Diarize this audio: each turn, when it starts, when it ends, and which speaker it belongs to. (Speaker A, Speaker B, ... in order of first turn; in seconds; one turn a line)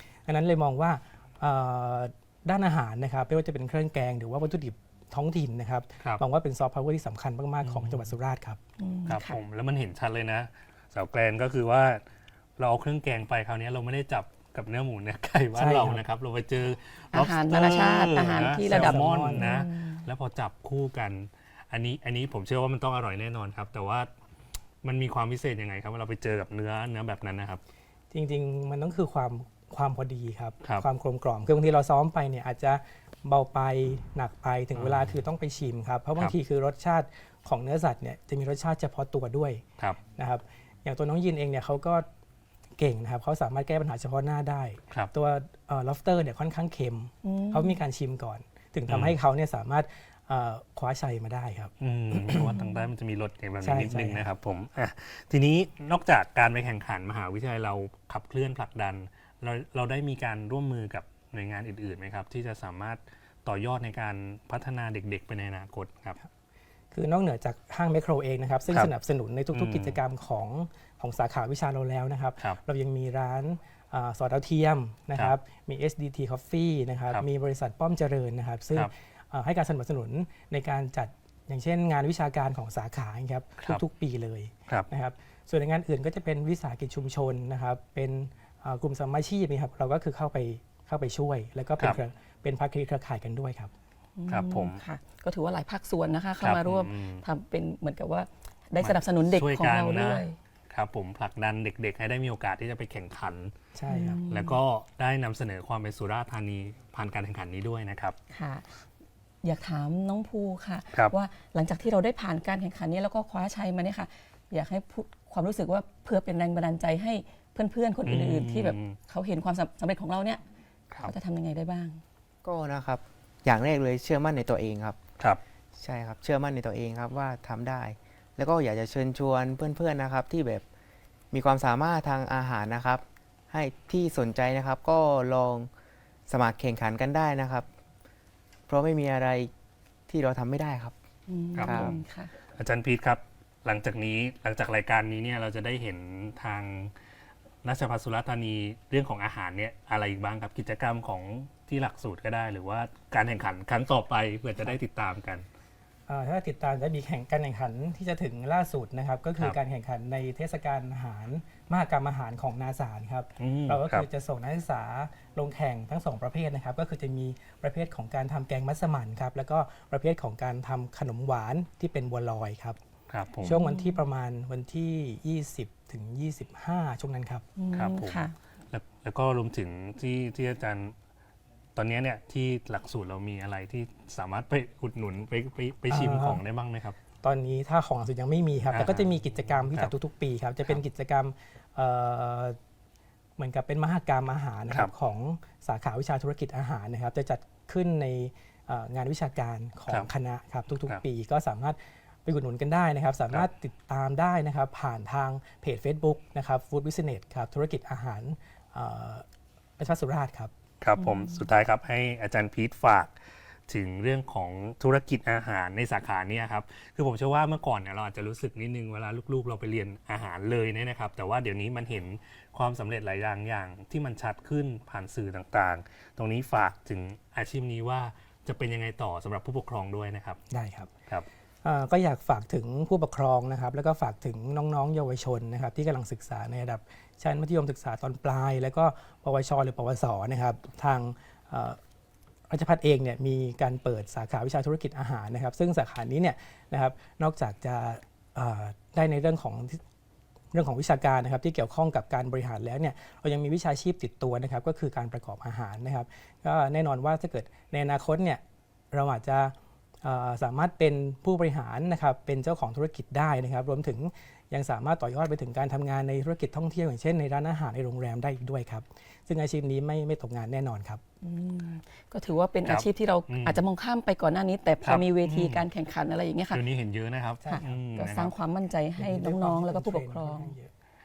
Speaker A: 0.2-8.6
Speaker B: 7.6-8.1
Speaker C: 8.8-9.4
Speaker B: 9.1-12.0
Speaker B: 12.6-24.1
Speaker A: 15.5-16.0
Speaker C: 17.1-20.1
Speaker A: 18.6-19.5
Speaker B: 24.8-27.6
Speaker A: 28.1-39.6
Speaker B: 34.7-35.2
Speaker A: 40.2-42.0
Speaker A: 42.8-52.6
Speaker C: 47.2-47.8
Speaker B: 48.9-49.2
Speaker B: 51.8-66.2
Speaker A: 53.6-54.3
Speaker A: 66.9-93.7
Speaker B: 69.5-70.0
Speaker C: 94.2-100.4
Speaker B: 94.3-94.8
Speaker B: 96.4-97.2
Speaker B: 98.8-103.5
Speaker A: 103.7-104.2
Speaker C: 103.9-104.6
Speaker B: 104.2-108.2
Speaker C: 108.3-108.7
Speaker C: 109.4-120.4
Speaker B: 118.0-119.0
Speaker C: 120.9-122.0
Speaker D: 122.4-125.0
Speaker D: 125.8-130.6
Speaker D: 131.3-135.7
Speaker D: 136.3-137.7
Speaker D: 138.7-139.5
Speaker D: 140.1-140.9
Speaker C: 141.3-142.3
Speaker B: 141.5-142.0
Speaker D: 141.6-141.9
Speaker B: 142.5-146.9
Speaker B: 147.6-155.4
Speaker A: 156.1-172.8
Speaker B: 163.4-164.1
Speaker B: 173.1-173.6
Speaker A: 173.4-177.4
Speaker C: 173.4-174.0
Speaker C: 177.6-178.3
Speaker B: 177.7-180.9
Speaker B: 181.8-187.0
Speaker A: 185.9-186.4
Speaker A: 187.2-192.6
Speaker B: 188.7-189.9
Speaker A: 193.4-209.2
Speaker A: 209.8-210.5
Speaker B: 210.8-213.1
Speaker B: 213.7-230.4
Speaker A: 230.5-230.9
Speaker A: 231.6-241.8
Speaker A: 242.5-249.8
Speaker A: 250.5-258.4
Speaker A: 258.9-271.0
Speaker C: 271.2-276.6
Speaker B: 272.6-273.6
Speaker B: 274.8-275.6
Speaker B: 276.5-278.3
Speaker C: 277.4-280.5
Speaker A: 279.0-280.7